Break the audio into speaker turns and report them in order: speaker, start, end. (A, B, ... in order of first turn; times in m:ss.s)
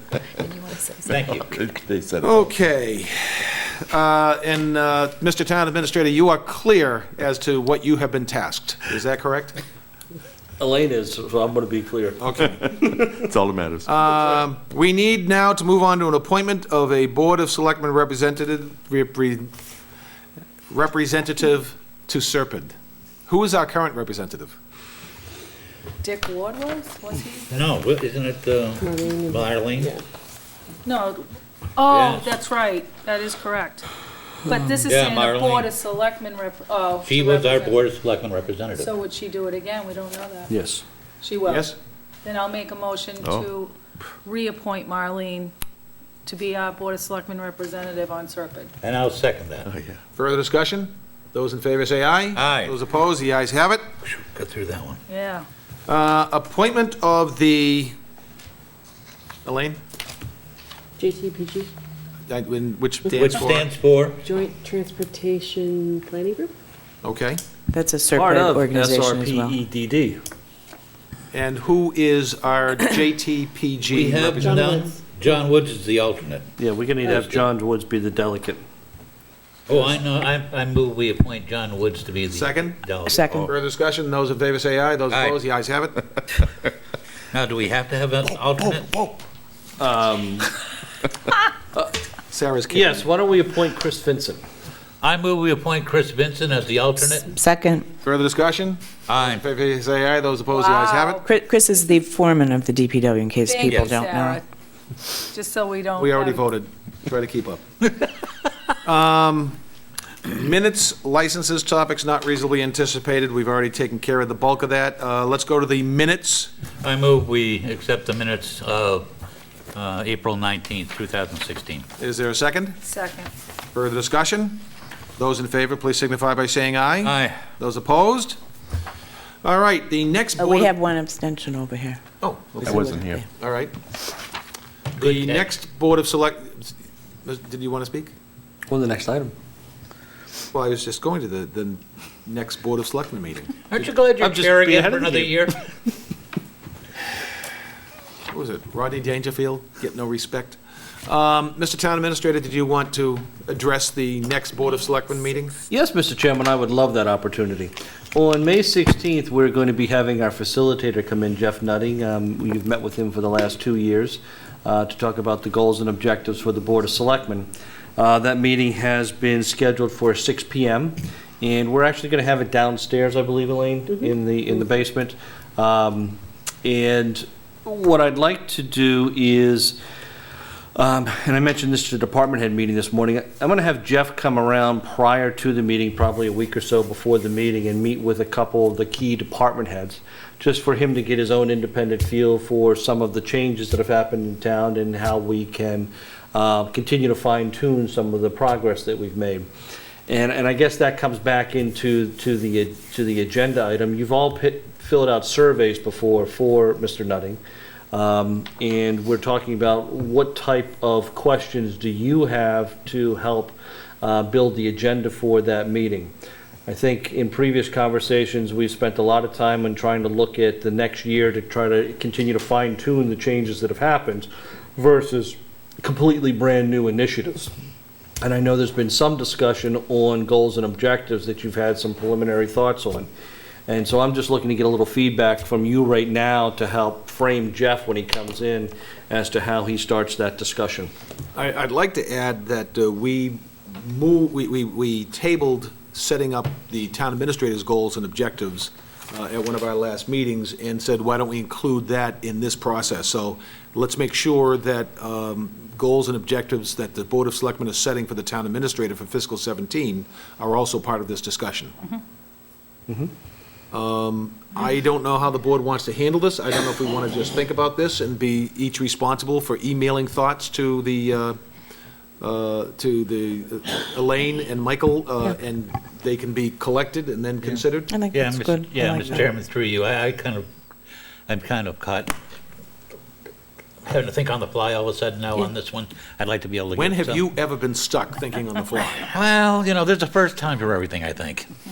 0:01.1-0:01.6 A
0:01.3-0:02.5 B
0:02.2-0:09.6 C
0:10.6-0:13.3 D
0:12.2-0:12.6 C
0:13.2-0:13.9 B
0:13.8-0:19.5 C
0:20.7-0:22.8 C
0:23.3-0:24.6 C
0:26.0-0:27.6 E
0:27.5-0:29.9 A
0:28.8-0:30.0 F
0:30.8-0:33.9 E
0:31.9-0:32.4 A
0:34.4-0:37.8 E
0:34.9-0:35.7 A
0:37.0-0:38.9 A
0:38.7-0:40.5 E
0:40.5-0:40.8 D
0:41.2-0:41.7 E
0:41.5-0:41.8 C
0:42.2-0:43.7 E
0:43.2-0:43.5 B
0:44.2-0:45.5 E
0:46.2-0:48.7 E
0:48.8-0:49.7 A
0:49.6-0:50.0 B
0:50.2-0:53.8 C
0:52.4-0:52.8 A
0:54.0-0:55.0 A
0:55.1-0:55.5 E
0:55.9-0:58.0 C
0:59.4-0:59.8 C
1:01.0-1:01.7 F
1:02.3-1:03.7 C
1:03.1-1:04.2 A
1:04.2-1:06.5 F
1:07.0-1:07.4 C
1:07.7-1:09.6 G
1:08.1-1:10.2 D
1:11.3-1:14.7 C
1:13.9-1:16.5 A
1:14.4-1:14.9 F
1:16.6-1:18.6 D
1:17.1-1:17.4 A
1:19.7-1:23.5 A
1:22.3-1:22.8 C
1:23.1-1:23.5 G
1:23.5-1:26.0 C
1:25.1-1:25.4 A
1:27.3-1:29.1 A
1:29.8-1:30.5 D
1:32.3-1:33.1 C
1:32.7-1:34.4 D
1:35.0-1:37.3 A
1:37.3-1:37.9 G
1:38.0-1:41.2 C
1:39.1-1:39.4 A
1:40.5-1:41.3 E
1:41.2-1:44.4 G
1:43.4-1:44.4 E
1:43.7-1:44.0 A
1:45.0-1:46.4 E
1:46.0-1:47.6 C
1:48.8-1:49.6 C
1:50.3-1:56.5 C
1:56.8-1:59.1 A
1:59.7-2:01.9 A
2:02.0-2:02.8 C
2:02.8-2:03.3 E
2:03.7-2:04.6 C
2:05.2-2:08.4 C
2:07.0-2:07.4 A
2:09.4-2:10.8 C
2:10.4-2:12.0 G
2:12.2-2:13.7 C
2:12.6-2:13.2 B
2:15.0-2:18.1 C
2:15.0-2:15.5 A
2:18.7-2:19.3 D
2:20.5-2:25.3 C
2:23.7-2:25.6 A
2:24.3-2:24.8 D
2:28.3-2:35.6 C
2:35.7-2:59.8 D
3:00.8-3:19.5 D
3:20.1-3:27.4 D
3:27.9-3:36.1 D
3:36.7-3:47.5 D
3:48.2-3:53.1 D
3:53.7-4:00.9 D
4:01.4-4:21.8 C
4:23.7-4:31.4 C
4:32.2-4:38.0 C
4:37.9-4:39.2 G
4:38.1-4:40.5 A
4:41.3-4:42.1 A
4:43.8-4:47.2 A
4:46.7-4:49.1 C
4:48.9-4:51.5 A